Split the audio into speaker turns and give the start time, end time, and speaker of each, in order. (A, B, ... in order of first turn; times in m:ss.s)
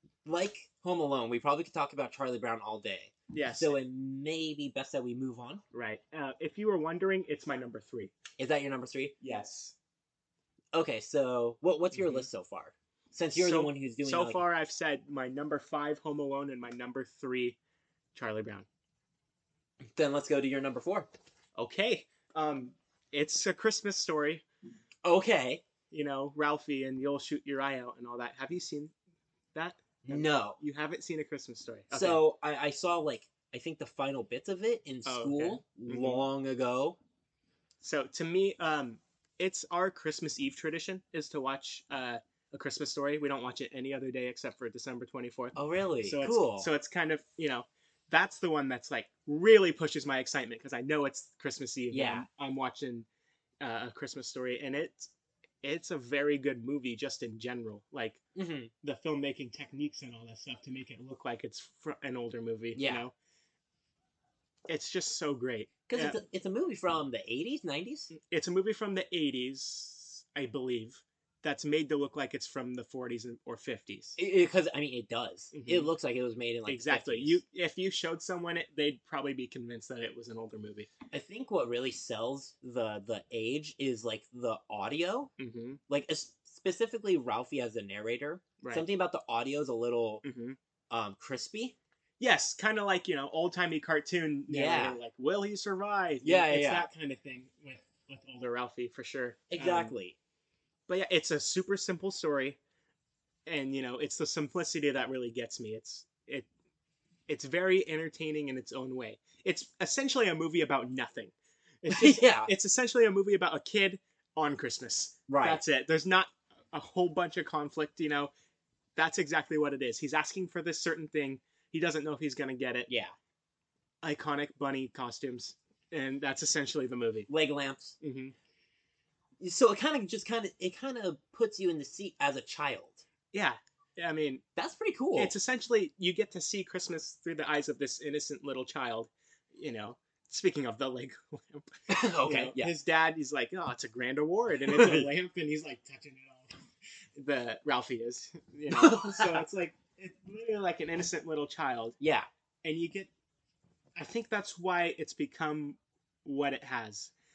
0:00.2-0:05.6 A
0:03.3-0:03.8 B
0:05.7-0:08.1 B
0:08.4-0:09.2 A
0:09.2-0:09.8 B
0:10.7-0:14.4 A
0:11.9-0:12.3 B
0:13.3-0:17.6 B
0:18.1-0:18.7 B
0:19.8-0:21.1 A
0:21.6-0:24.4 B
0:25.0-0:25.6 A
0:25.9-0:28.9 B
0:29.5-0:32.2 B
0:30.0-0:30.6 A
0:31.9-0:37.0 A
0:35.1-0:36.2 B
0:37.8-0:53.1 B
0:45.5-0:46.7 A
0:51.9-0:52.3 A
0:53.6-0:55.1 B
0:55.6-0:58.2 B
0:58.4-0:58.7 A
0:58.8-1:03.1 B
1:02.8-1:03.0 A
1:04.7-1:06.2 B
1:05.9-1:08.1 A
1:08.1-1:14.2 B
1:14.2-1:17.4 A
1:15.5-1:15.9 B
1:16.7-1:20.9 B
1:21.1-1:25.3 A
1:25.4-1:25.8 B
1:25.9-1:30.2 A
1:28.6-1:28.9 B
1:30.2-1:30.6 B
1:30.9-1:31.8 A
1:32.2-1:40.0 B
1:34.5-1:35.0 A
1:36.2-1:36.9 A
1:39.5-1:40.2 A
1:40.9-1:42.6 B
1:43.5-1:46.5 B
1:47.3-1:58.3 B
1:51.9-1:52.5 A
1:55.3-1:55.6 A
1:59.0-2:02.9 B
2:02.9-2:03.1 A
2:04.0-2:07.3 B
2:07.3-2:08.0 A
2:08.0-2:08.3 B
2:09.4-2:13.0 A
2:13.3-2:14.4 B
2:14.6-2:15.4 A
2:15.2-2:21.7 B
2:21.9-2:22.7 A
2:22.2-2:26.5 B
2:24.6-2:25.1 A
2:27.2-2:32.0 B
2:28.7-2:29.4 A
2:32.0-2:32.3 A
2:32.6-2:33.1 B
2:34.0-2:37.1 B